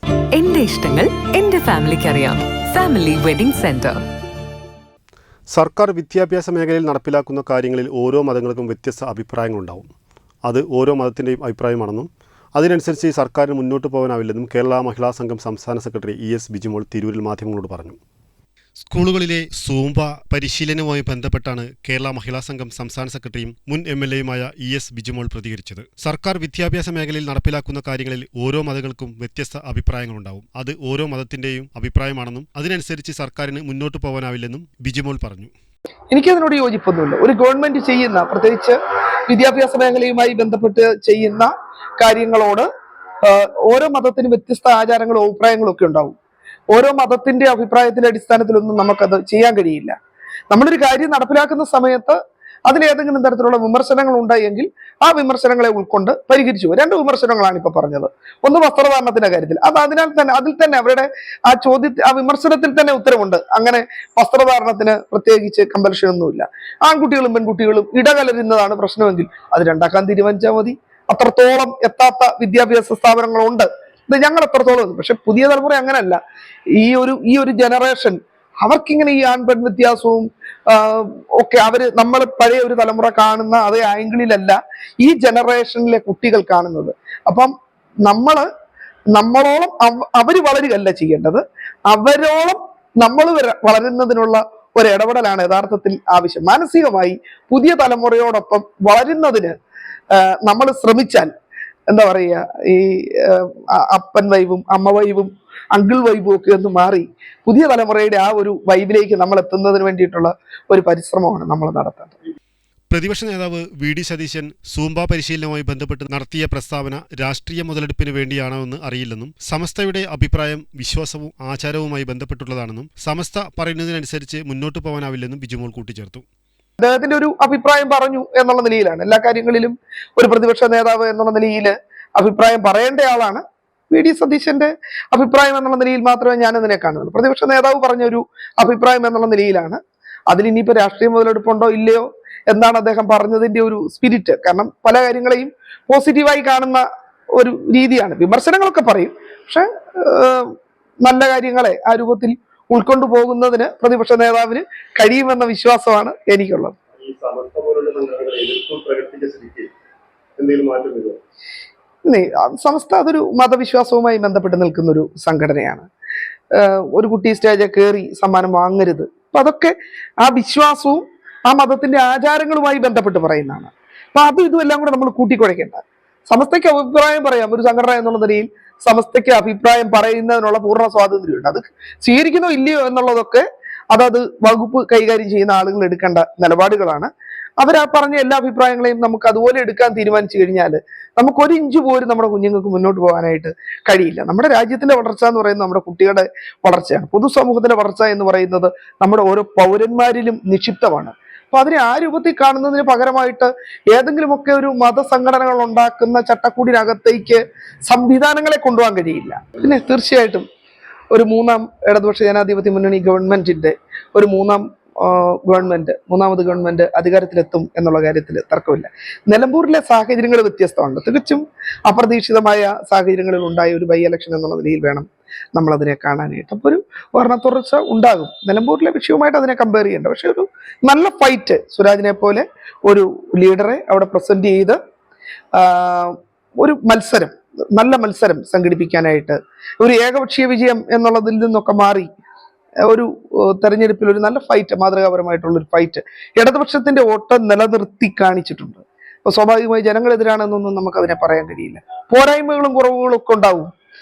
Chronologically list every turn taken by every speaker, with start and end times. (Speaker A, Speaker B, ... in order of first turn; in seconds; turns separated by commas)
Speaker A: 0.3-4.0, Speaker B: 5.5-9.9, Speaker B: 10.4-18.0, Speaker B: 18.8-35.5, Speaker C: 36.1-42.7, Speaker C: 43.2-46.1, Speaker C: 46.7-50.0, Speaker C: 50.5-76.2, Speaker C: 76.8-87.5, Speaker C: 88.0-88.5, Speaker C: 89.1-99.5, Speaker C: 100.1-101.3, Speaker C: 101.9-112.2, Speaker B: 112.9-126.2, Speaker C: 126.8-139.8, Speaker C: 140.3-146.8, Speaker C: 147.3-156.8, Speaker A: 157.1-159.1, Speaker B: 157.1-159.2, Speaker A: 160.4-160.7, Speaker B: 160.4-160.9, Speaker C: 162.1-165.8, Speaker C: 166.6-210.4, Speaker C: 211.1-234.8, Speaker C: 235.5-242.1, Speaker C: 242.8-253.7